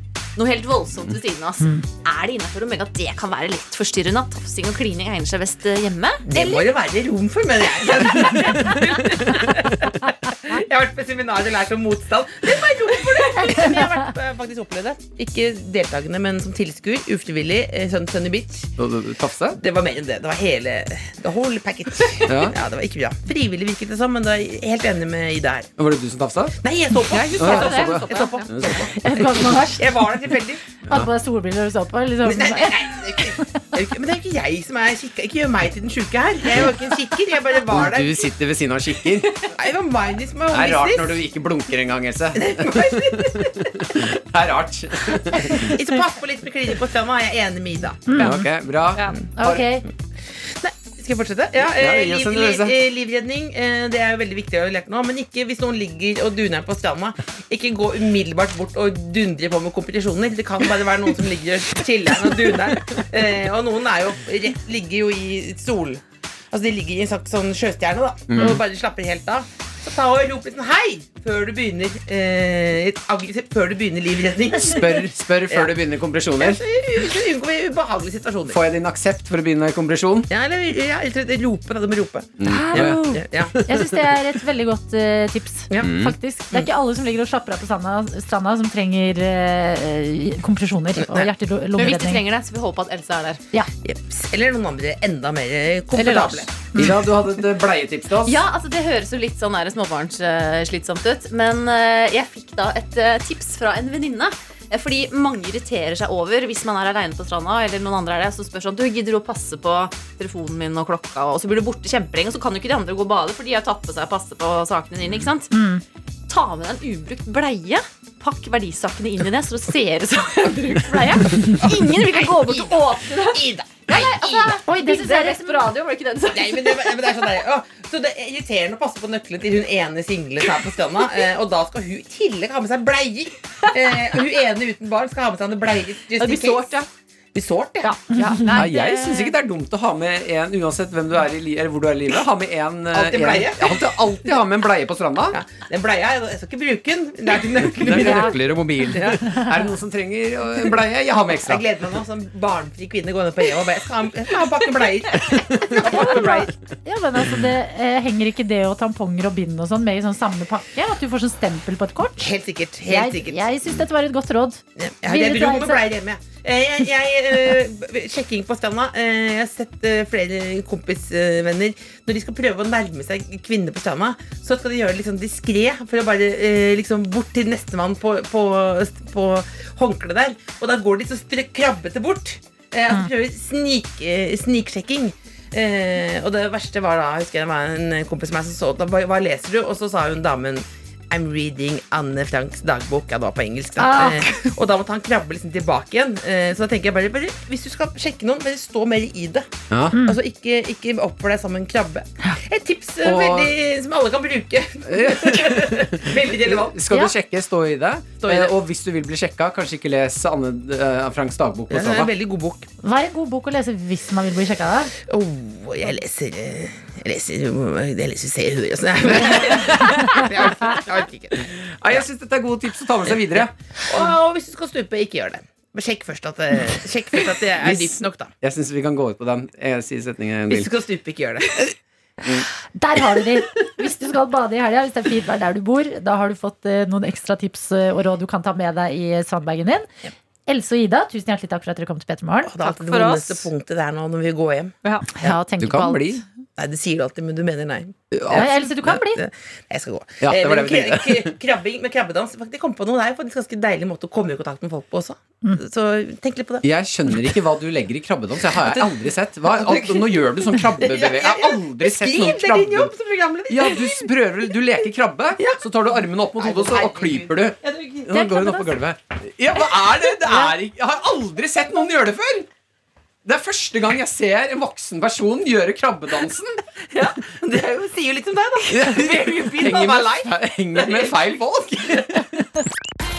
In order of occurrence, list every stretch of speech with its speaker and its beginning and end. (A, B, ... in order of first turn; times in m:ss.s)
0:00.4-0:06.6 A
0:06.2-0:18.7 B
0:08.1-0:09.3 A
0:13.4-0:13.8 C
0:18.8-0:19.6 D
0:19.6-0:25.7 B
0:22.3-0:22.5 D
0:25.8-0:26.6 D
0:26.6-0:30.6 B
0:27.1-0:28.5 A
0:27.4-0:29.2 D
0:28.9-0:29.9 C
0:30.8-0:33.4 C
0:32.2-0:38.3 B
0:37.7-0:39.5 D
0:39.5-0:41.2 B
0:40.5-0:45.7 D
0:42.3-0:43.6 B
0:45.6-0:48.1 B
0:48.1-0:48.5 C
0:48.2-0:49.6 D
0:49.3-0:49.8 C
0:50.6-1:15.7 B
0:51.8-0:52.7 D
1:08.3-1:08.6 D
1:14.6-1:16.6 D
1:16.4-1:18.6 B
1:18.5-1:20.3 D
1:20.3-1:23.5 B
1:22.4-1:24.0 D
1:22.4-1:32.2 C
1:25.8-1:26.1 D
1:31.0-1:31.3 B
1:31.8-1:33.4 A
1:33.8-1:36.8 B
1:36.0-1:36.4 A
1:36.7-1:38.4 D
1:38.2-1:55.5 A
1:55.5-1:55.8 C
1:56.3-2:07.2 A
2:01.4-2:04.6 B
2:04.6-2:05.7 C
2:06.3-2:16.8 B
2:16.2-2:16.9 A
2:17.3-2:18.1 B
2:17.8-2:19.3 A
2:18.1-2:18.7 C
2:18.6-2:25.4 D
2:22.9-2:23.9 B
2:25.3-2:29.3 B
2:27.7-2:31.6 D
2:27.9-2:28.3 C
2:29.1-2:29.6 C
2:31.4-2:36.5 B
2:35.3-2:35.8 D
2:35.8-2:42.2 C
2:42.2-2:43.8 B
2:42.8-2:45.8 C
2:44.8-3:26.8 B
3:13.8-3:14.5 C
3:19.7-3:20.0 D
3:23.0-3:23.5 D
3:24.9-3:32.1 D
3:28.2-3:28.6 B
3:31.7-3:32.7 B
3:32.8-3:34.9 C
3:35.1-3:42.0 B
3:39.6-3:40.2 D
3:41.6-3:43.5 D
3:43.0-3:48.3 B
3:47.6-3:50.7 D
3:50.5-3:51.6 B
3:52.8-3:59.9 C
4:00.5-4:02.6 C
4:02.5-4:04.7 B
4:02.6-4:03.4 A
4:04.8-4:05.1 A
4:05.2-4:06.2 C
4:05.6-4:06.2 D
4:06.6-4:16.6 B
4:08.1-4:08.6 D
4:08.3-4:09.2 C
4:10.2-4:11.3 D
4:16.6-4:22.9 D
4:18.4-4:24.1 B
4:23.5-4:27.6 D
4:25.4-4:25.6 B
4:26.4-4:28.2 B
4:28.1-4:32.5 D
4:28.1-4:28.7 C
4:33.2-4:36.6 D
4:36.9-4:41.2 B
4:38.6-4:42.5 D